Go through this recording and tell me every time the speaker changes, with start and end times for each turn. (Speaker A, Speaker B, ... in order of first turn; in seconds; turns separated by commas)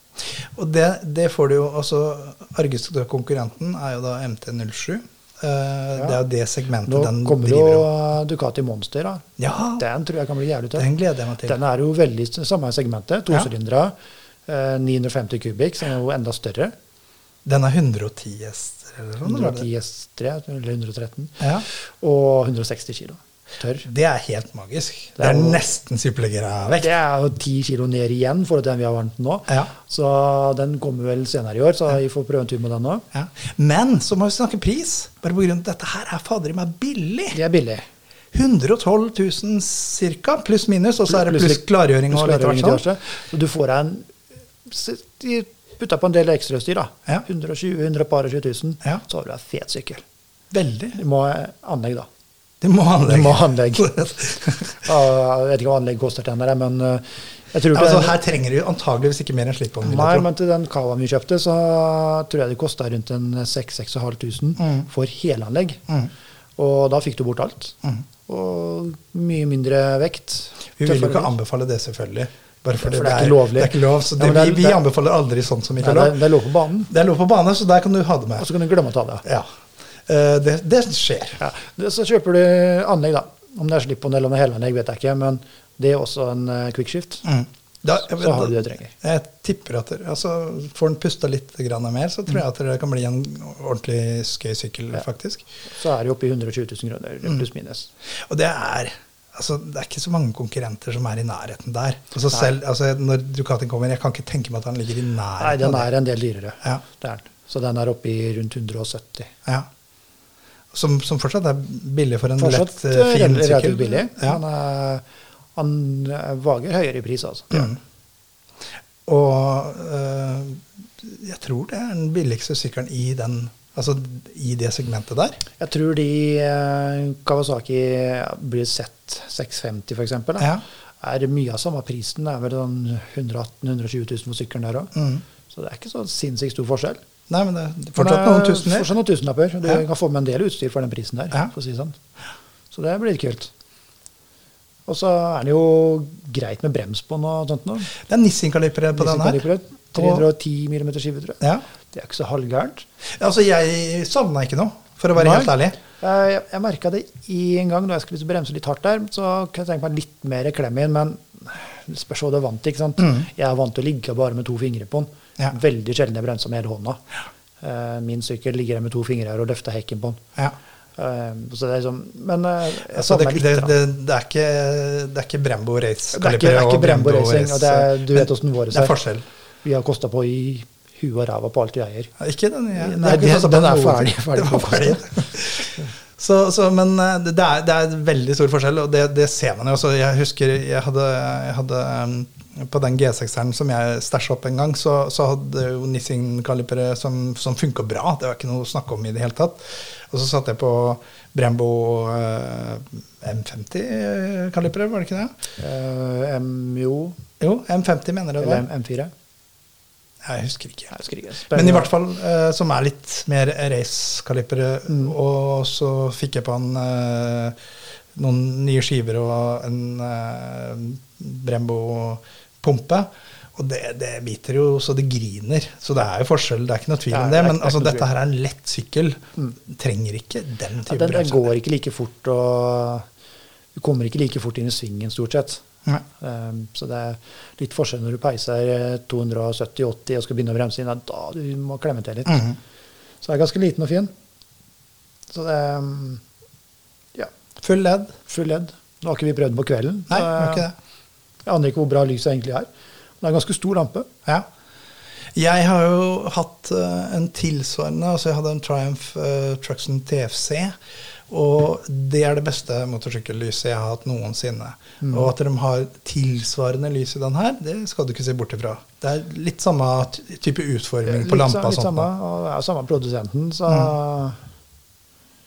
Speaker A: 0.3-7.9, Speaker B: 6.8-10.9, Speaker A: 9.4-9.8, Speaker A: 10.7-11.6, Speaker B: 11.4-13.9, Speaker B: 14.5-16.7, Speaker A: 17.4-19.6, Speaker B: 19.2-23.9, Speaker A: 21.4-21.6, Speaker A: 23.8-26.9, Speaker B: 25.2-25.6, Speaker B: 26.7-33.0, Speaker A: 33.1-37.4, Speaker B: 37.3-37.9, Speaker A: 38.3-42.8, Speaker B: 41.0-44.1, Speaker B: 44.6-50.0, Speaker A: 50.5-51.0, Speaker B: 50.9-52.1, Speaker A: 52.6-54.8, Speaker B: 53.0-54.0, Speaker B: 54.8-58.2, Speaker A: 57.7-60.3, Speaker B: 59.8-65.8, Speaker A: 64.6-64.8, Speaker B: 66.6-71.3, Speaker A: 70.8-76.2, Speaker B: 72.8-74.8, Speaker B: 75.8-76.9, Speaker A: 76.9-78.5, Speaker B: 78.4-79.2, Speaker A: 79.2-79.5, Speaker A: 80.0-81.4, Speaker B: 81.4-87.3, Speaker A: 87.2-95.4, Speaker B: 88.0-88.9, Speaker B: 95.7-97.9, Speaker A: 98.2-105.9, Speaker B: 105.4-109.3, Speaker A: 110.7-114.4, Speaker B: 112.4-115.0, Speaker B: 115.5-117.7, Speaker A: 117.5-117.8, Speaker A: 119.0-125.4, Speaker B: 125.6-134.9, Speaker A: 134.9-135.2, Speaker B: 135.5-137.0, Speaker A: 137.3-138.9, Speaker B: 137.9-142.0, Speaker B: 142.7-143.5, Speaker B: 144.9-147.9, Speaker A: 147.9-149.4, Speaker B: 148.9-152.8, Speaker A: 149.9-150.3, Speaker A: 153.2-155.8, Speaker B: 155.2-170.2, Speaker A: 163.0-163.2, Speaker B: 171.0-173.7, Speaker A: 172.9-179.2, Speaker B: 176.1-178.9, Speaker B: 179.6-182.1, Speaker A: 182.2-205.3, Speaker B: 182.7-185.3, Speaker B: 205.6-207.2, Speaker A: 207.4-208.7, Speaker B: 208.4-209.1, Speaker A: 210.2-211.0, Speaker B: 210.9-211.9, Speaker A: 211.5-217.6, Speaker A: 218.2-231.5, Speaker B: 227.1-228.1, Speaker B: 230.9-233.1, Speaker B: 233.7-235.6, Speaker B: 236.2-242.5, Speaker A: 242.3-242.6, Speaker B: 243.2-244.1, Speaker B: 245.3-246.2, Speaker A: 247.6-248.2, Speaker B: 248.3-250.7, Speaker A: 250.1-250.7, Speaker B: 251.4-252.7, Speaker B: 253.2-254.1, Speaker A: 255.3-260.8, Speaker A: 261.3-272.1, Speaker B: 265.0-265.3, Speaker B: 271.0-274.4